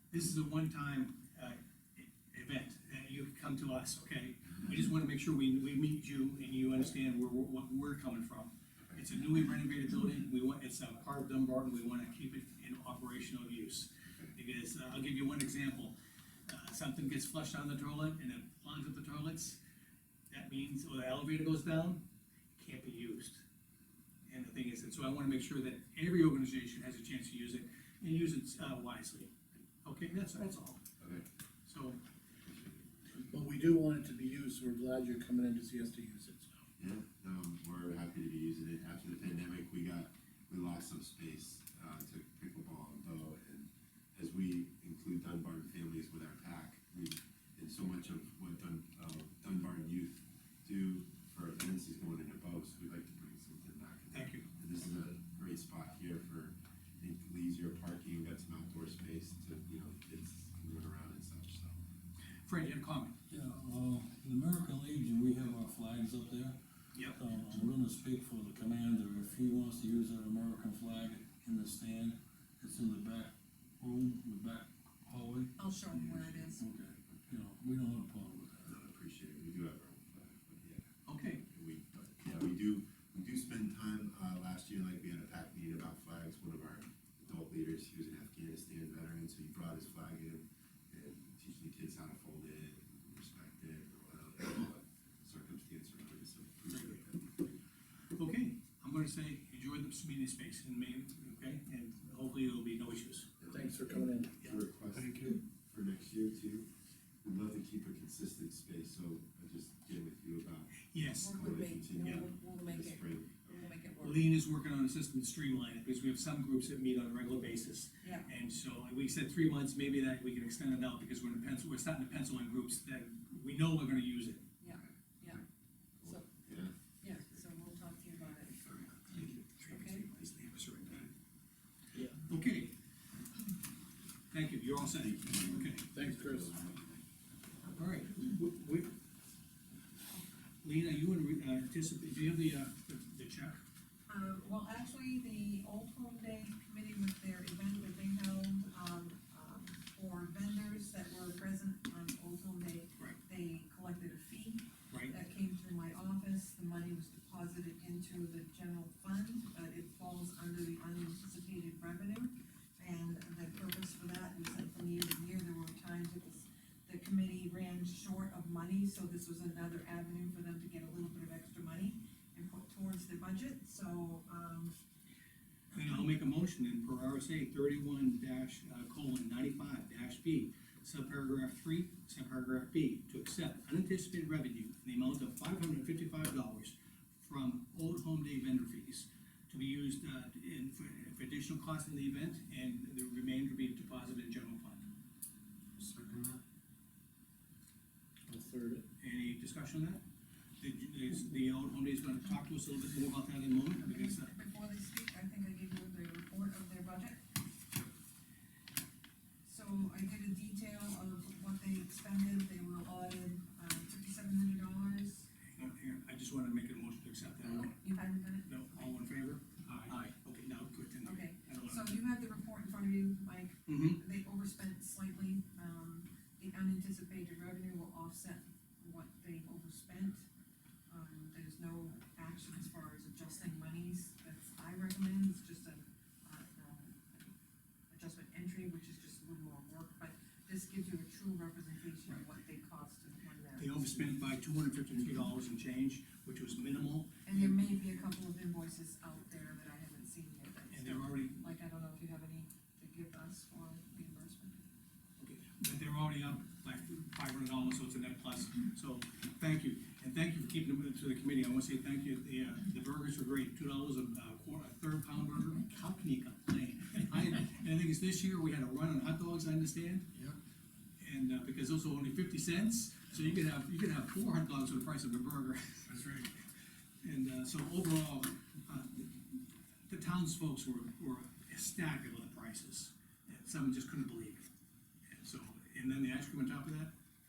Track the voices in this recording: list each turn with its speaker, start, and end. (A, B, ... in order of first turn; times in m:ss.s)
0:00.1-0:15.9 A
0:16.5-0:19.6 A
0:20.3-0:22.0 A
0:22.6-0:23.4 A
0:24.3-0:29.3 A
0:29.8-0:30.8 A
0:31.0-0:31.2 B
0:31.6-0:32.0 A
0:32.4-0:32.9 B
0:33.2-0:36.5 C
0:36.8-1:01.8 B
0:54.1-0:54.5 A
1:02.4-1:03.2 A
1:03.3-1:15.5 D
1:06.9-1:07.2 A
1:15.6-1:16.6 E
1:16.5-1:18.6 D
1:18.6-1:37.5 B
1:21.0-1:21.4 A
1:36.7-1:37.0 A
1:38.1-1:43.4 A
1:43.4-1:46.6 B
1:43.5-1:44.3 C
1:44.9-1:45.4 D
1:47.2-1:53.7 B
1:50.9-1:51.4 A
1:51.0-1:54.3 E
1:54.0-2:04.4 A
1:58.0-1:58.3 E
2:04.6-2:05.4 E
2:06.0-2:06.7 B
2:07.0-2:08.7 E
2:09.1-2:11.1 A
2:09.7-2:10.0 E
2:12.2-2:12.7 A
2:14.3-2:15.9 A
2:15.0-2:16.9 B
2:15.9-2:16.6 C
2:17.8-2:18.9 A
2:20.6-2:23.6 A
2:24.1-2:54.7 E
2:55.7-2:56.2 E
2:55.7-3:14.9 A
3:15.8-3:16.2 D
3:18.3-3:18.8 C
3:19.0-3:20.0 A
3:20.6-3:24.3 A
3:23.8-3:27.2 E
3:29.4-3:35.3 E
3:35.6-3:37.8 A
3:37.4-3:38.8 E
3:38.4-3:41.9 A
3:41.0-3:50.2 E
3:43.7-3:44.0 A
3:50.9-3:57.3 E
3:57.9-4:04.1 E
4:03.6-4:07.6 A
4:07.2-4:14.6 E
4:10.7-4:11.4 A
4:15.2-4:30.1 A
4:31.0-4:36.3 A
4:37.0-4:44.5 A
4:45.1-4:46.9 A